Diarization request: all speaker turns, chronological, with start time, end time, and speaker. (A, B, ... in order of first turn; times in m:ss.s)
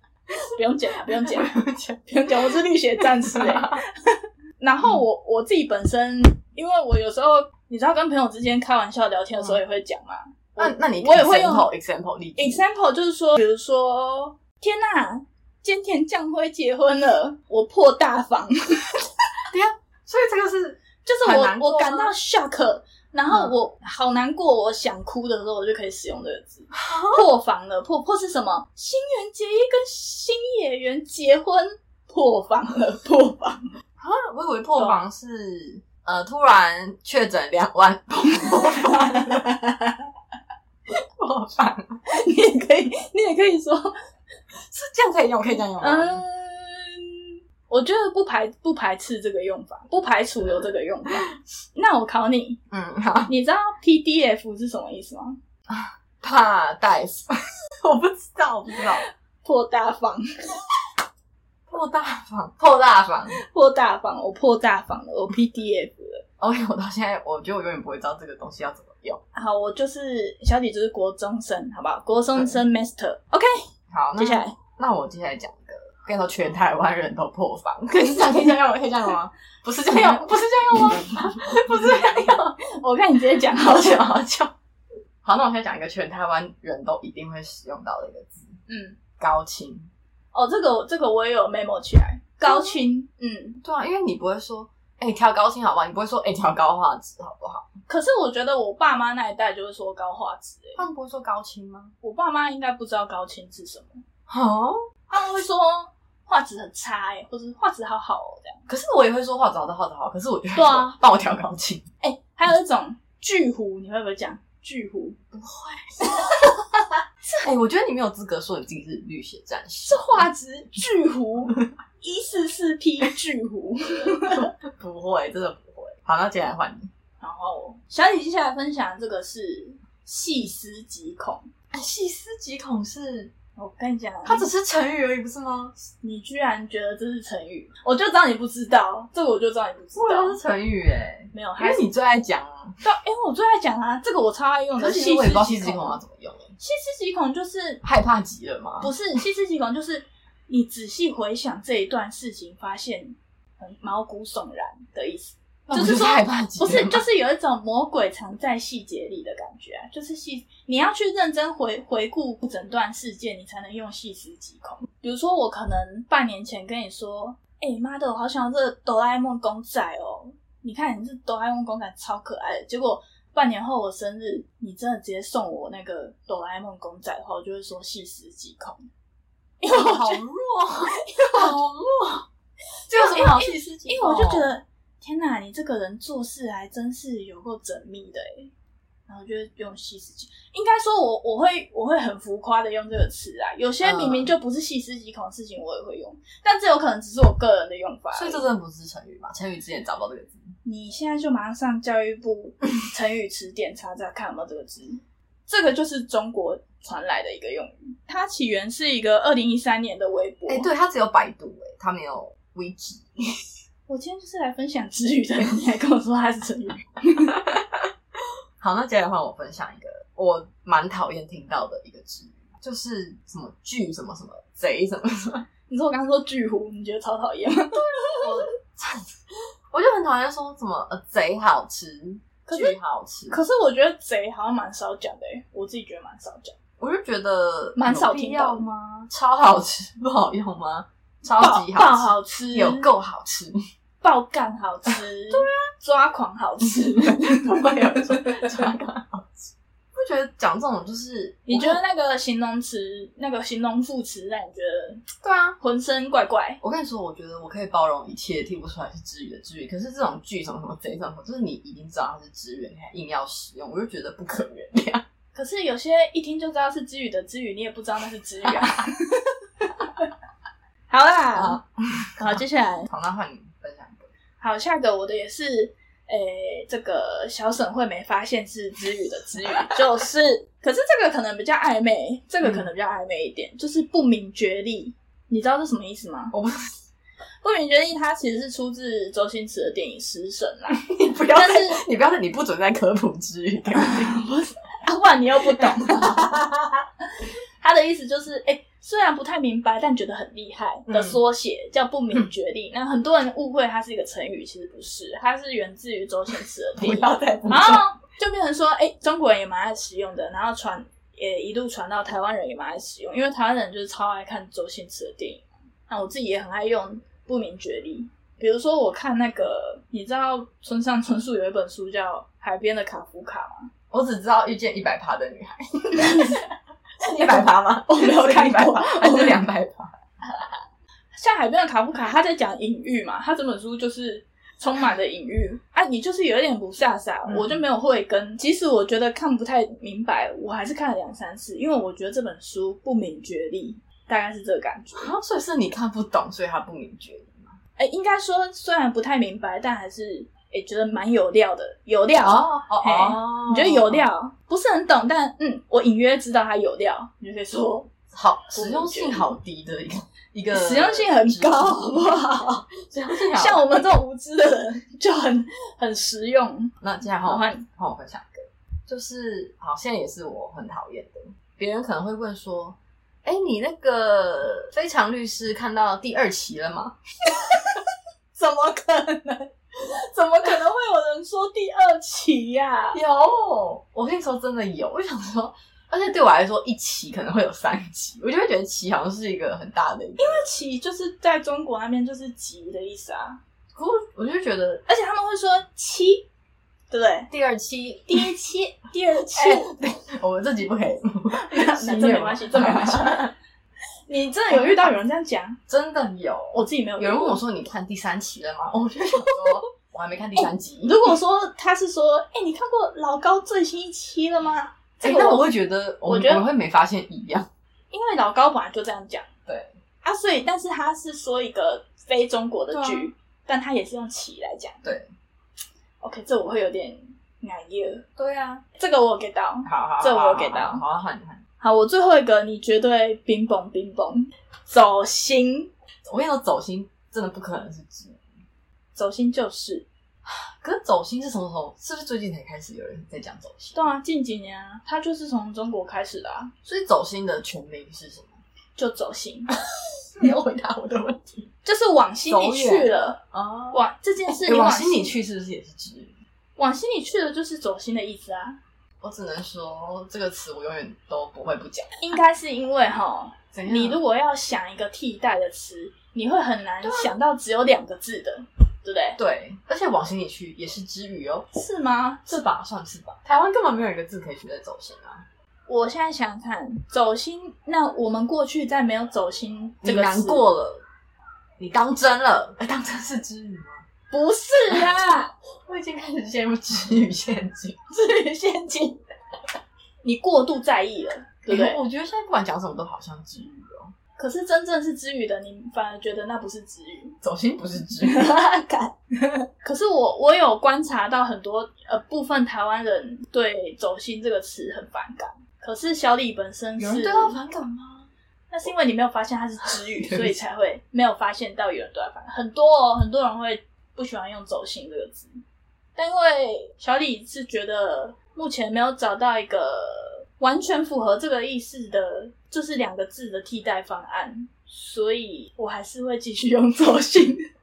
0:00.5-0:11.7 A
0:01.2-0:03.8 B
0:09.3-0:09.6 B
0:10.6-0:12.6 B
0:12.4-0:19.0 A
0:19.5-0:22.1 B
0:21.0-0:33.6 A
0:26.7-0:27.3 B
0:34.0-0:39.5 B
0:38.4-0:40.0 A
0:41.2-0:42.0 B
0:42.1-0:44.0 A
0:44.7-0:46.2 B
0:45.5-0:52.6 A
0:52.7-0:53.3 B
0:53.3-0:55.4 A
0:55.7-0:57.3 B
0:57.8-0:59.0 B
0:59.4-1:00.2 A
1:01.7-1:03.4 B
1:03.5-1:06.2 A
1:06.4-1:09.2 B
1:09.3-1:13.5 A
1:12.3-1:12.6 B
1:13.9-1:22.6 B
1:14.2-1:14.6 A
1:19.9-1:24.1 A
1:23.5-1:24.5 B
1:25.2-1:28.6 B
1:28.7-1:29.0 A
1:29.2-1:29.9 B
1:30.3-1:33.6 A
1:32.4-1:32.8 B
1:33.6-1:37.7 B
1:37.9-1:40.8 A
1:40.8-1:41.9 B
1:42.0-1:44.0 A
1:44.3-1:44.8 B
1:45.1-1:48.7 A
1:48.7-1:51.8 B
1:50.6-1:50.9 A
1:52.0-1:55.2 A
1:55.3-1:56.3 B
1:56.1-1:56.6 A
1:57.3-2:00.3 B
1:59.9-2:04.5 A
2:04.2-2:06.9 B
2:07.2-2:11.5 A
2:11.7-2:13.3 B
2:13.6-2:14.5 A
2:14.3-2:15.8 B
2:16.0-2:20.4 A
2:20.0-2:22.8 B
2:21.3-2:21.9 A
2:22.8-2:26.0 A
2:24.8-2:26.6 B
2:26.6-2:27.8 A
2:27.8-2:28.9 B
2:28.8-2:58.8 A
2:35.7-2:37.0 B
2:59.6-3:00.2 A
2:59.7-3:02.2 B
3:01.0-3:01.6 A
3:02.9-3:04.5 B
3:02.9-3:08.5 A
3:09.1-3:18.4 A
3:13.8-3:14.4 B
3:18.1-3:20.5 B
3:20.6-3:30.7 A
3:30.5-3:33.3 B
3:33.9-3:37.4 A
3:38.6-3:45.5 B
3:45.7-3:48.4 A
3:47.7-3:49.1 B
3:49.7-3:53.4 B
3:52.5-3:52.8 A
3:53.3-3:56.5 A
3:56.8-4:03.6 B
3:57.8-3:58.7 A
4:01.3-4:02.9 A
4:04.0-4:08.5 A
4:06.8-4:11.8 B
4:11.5-4:15.0 A
4:15.2-4:15.6 B
4:15.6-4:16.6 A
4:16.6-4:25.0 B
4:25.3-4:29.3 A
4:28.4-4:28.7 B
4:30.9-4:31.6 A
4:31.4-4:34.1 B
4:32.2-4:32.9 A
4:34.4-4:46.4 A
4:42.4-4:42.7 B
4:46.3-4:46.6 B
4:47.4-4:50.8 A
4:50.7-4:54.2 B
4:51.3-4:51.8 A
4:53.8-4:56.7 A
4:55.5-4:56.3 B
4:57.6-5:23.7 A
5:00.9-5:01.2 B
5:06.8-5:07.9 B
5:23.9-5:26.4 B
5:26.0-5:26.4 A
5:27.0-5:29.9 B
5:27.1-5:29.4 A
5:31.2-5:45.1 A
5:37.3-5:37.6 B
5:45.0-5:47.6 B
5:47.8-5:57.9 A
5:52.2-5:54.1 B
5:58.1-6:02.2 B
5:58.5-5:59.3 A
6:00.5-6:02.7 A
6:02.8-6:03.8 B
6:03.3-6:06.7 A
6:06.8-6:17.0 B
6:07.2-6:07.6 A
6:17.3-6:17.8 A
6:18.4-6:23.0 A
6:22.9-6:30.5 B
6:30.2-6:33.4 A
6:33.8-6:34.8 B
6:34.9-6:36.3 A
6:36.9-6:37.3 A
6:37.3-6:38.3 B
6:38.1-6:39.7 A
6:39.4-6:43.3 B
6:41.3-6:43.3 A
6:44.1-6:45.6 A
6:44.5-6:44.9 B
6:45.7-6:51.2 B
6:46.6-6:47.4 A
6:49.2-6:49.5 A
6:50.4-6:55.5 A
6:55.0-6:57.5 B
6:56.1-6:56.5 A
6:57.9-6:59.3 A
6:59.5-6:59.7 B
7:00.0-7:04.8 A
7:02.7-7:03.1 B
7:04.8-7:05.1 B
7:06.0-7:10.8 A
7:09.7-7:11.4 B
7:11.6-7:15.7 A
7:16.0-7:18.2 B
7:19.0-7:19.9 A
7:20.2-7:23.9 B
7:23.8-7:26.5 A
7:26.6-7:28.4 B
7:28.8-7:29.5 A
7:30.2-7:31.5 B
7:31.6-7:33.2 A
7:32.3-7:36.2 B
7:33.7-7:35.2 A
7:36.6-7:38.6 A
7:39.0-7:42.0 B
7:42.0-7:49.2 A
7:43.5-7:44.0 B
7:46.8-7:47.2 B
7:49.2-7:51.5 B
7:51.5-7:52.4 A
7:52.3-7:55.3 B
7:55.7-8:00.4 A
7:59.8-8:00.8 B
8:01.6-8:03.8 B
8:04.1-8:05.3 A
8:04.7-8:04.9 B
8:05.7-8:07.8 B
8:07.9-8:09.0 A
8:10.0-8:11.8 A
8:11.5-8:13.9 B
8:14.2-8:17.2 A
8:17.2-8:18.3 B
8:18.1-8:27.4 A
8:26.8-8:28.1 B
8:28.5-8:35.3 A
8:30.0-8:30.4 B
8:36.0-8:47.4 A